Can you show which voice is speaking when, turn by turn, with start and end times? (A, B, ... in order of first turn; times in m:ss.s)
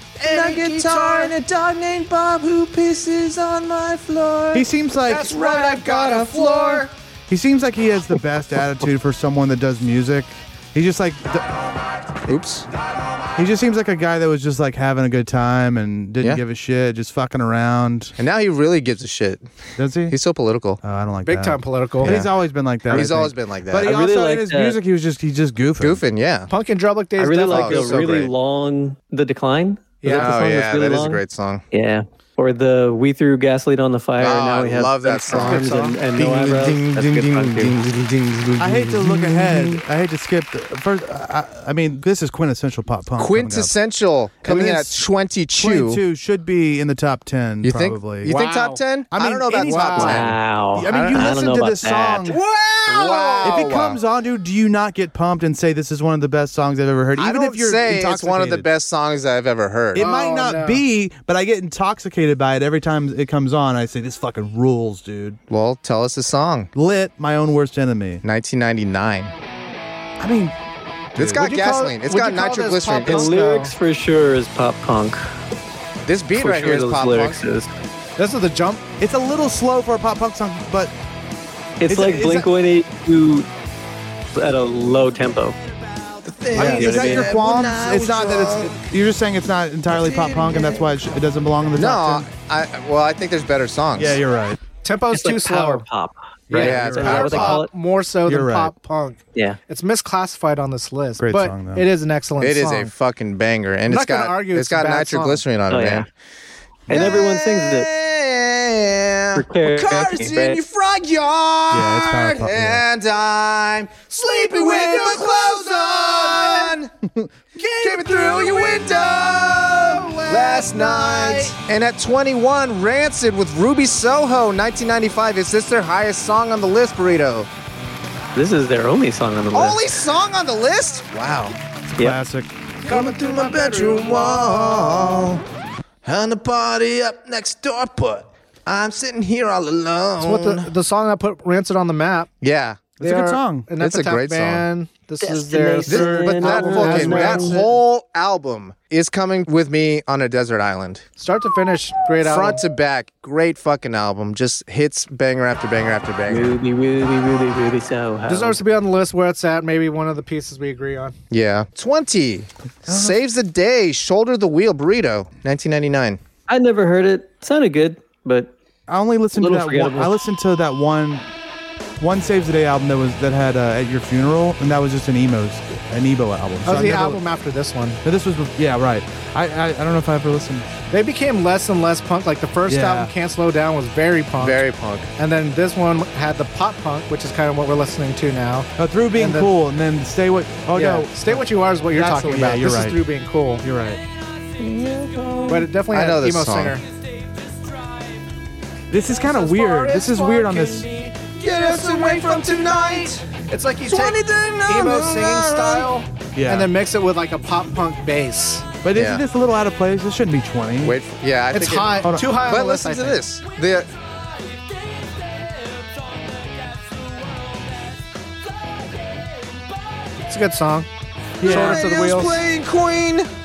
0:00.2-0:01.3 A
0:00.2-0:06.9 B
0:04.5-0:05.3 C
0:05.0-0:06.9 A
0:07.3-0:11.5 C
0:12.3-0:12.7 B
0:13.4-0:18.2 C
0:18.2-0:19.5 B
0:19.8-0:20.2 C
0:20.1-0:20.8 B
0:20.8-0:26.0 C
0:21.2-0:22.2 A
0:22.0-0:22.3 B
0:22.9-0:23.9 B
0:23.8-0:24.8 D
0:25.8-0:26.5 B
0:26.5-0:28.1 A
0:27.2-0:37.8 D
0:27.5-0:28.3 B
0:30.0-0:30.4 A
0:30.1-0:31.6 B
0:34.2-0:39.8 B
0:35.3-0:36.0 A
0:38.6-0:43.8 C
0:43.2-0:46.0 B
0:44.4-0:45.0 C
0:45.6-0:48.3 C
0:47.6-0:50.3 B
0:48.2-0:48.8 A
0:49.1-0:52.4 C
0:49.5-0:50.2 A
0:50.0-0:52.3 D
0:50.9-0:51.4 B
0:52.2-0:53.6 A
0:52.9-0:54.0 B
0:53.4-0:58.7 C
0:57.2-1:00.1 B
0:59.9-1:05.4 C
1:00.0-1:00.8 A
1:05.5-1:06.7 B
1:06.8-1:08.2 C
1:08.2-1:09.3 B
1:10.2-1:10.6 C
1:11.1-1:11.5 C
1:11.2-1:13.3 B
1:11.4-1:13.7 A
1:13.0-1:15.2 D
1:16.0-1:17.4 B
1:16.4-1:17.7 D
1:18.2-1:18.8 A
1:19.0-1:20.9 C
1:21.8-1:23.5 D
1:21.9-1:22.5 C
1:24.3-1:25.6 D
1:26.2-1:28.7 B
1:26.5-1:32.3 C
1:26.6-1:27.3 D
1:29.9-1:30.9 B
1:31.8-1:34.2 B
1:34.0-1:34.6 C
1:34.8-1:35.8 A
1:35.1-1:37.7 D
1:36.5-1:42.9 A
1:36.5-1:37.6 B
1:36.5-1:37.6 C
1:38.3-1:38.7 C
1:41.2-1:41.9 C
1:42.4-1:46.1 B
1:43.9-1:45.4 A
1:45.7-1:46.1 D
1:46.9-1:47.9 D
1:46.9-1:56.9 B
1:49.4-1:50.6 D
1:51.7-1:52.8 C
1:54.1-1:56.8 A
1:57.0-1:57.3 C
1:57.6-2:01.6 A
1:57.8-2:07.5 B
2:08.4-2:09.9 D
2:09.5-2:11.6 B
2:11.9-2:12.5 C
2:12.9-2:15.0 A
2:12.9-2:15.4 B
2:16.0-2:20.7 B
2:20.2-2:22.3 A
2:22.4-2:22.9 B
2:23.0-2:23.7 C
2:23.0-2:27.7 A
2:23.8-2:24.6 B
2:25.2-2:27.6 D
2:25.9-2:31.0 B
2:31.2-2:32.6 A
2:32.2-2:36.6 B
2:36.3-2:38.6 D
2:38.3-2:41.2 A
2:41.3-2:46.2 B
2:42.9-2:43.2 C
2:46.5-2:48.5 D
2:48.9-2:51.3 C
2:49.4-2:50.2 D
2:52.0-2:57.2 C
2:56.6-2:58.0 A
2:58.0-3:00.7 C
3:00.9-3:09.5 A
3:02.7-3:03.1 C
3:04.4-3:05.1 B
3:08.8-3:13.0 C
3:10.8-3:13.6 A
3:13.6-3:14.0 C
3:14.6-3:16.8 B
3:15.5-3:16.8 A
3:18.9-3:20.9 C
3:19.3-3:28.7 A
3:21.4-3:23.2 B
3:23.9-3:25.9 B
3:26.4-3:26.7 C
3:28.8-3:31.0 C
3:29.0-3:29.2 B
3:30.8-3:33.9 B
3:31.5-3:33.2 A
3:32.0-3:32.3 C
3:40.3-3:40.9 A
3:41.4-3:41.9 C
3:41.4-3:43.3 B
3:41.4-3:42.4 A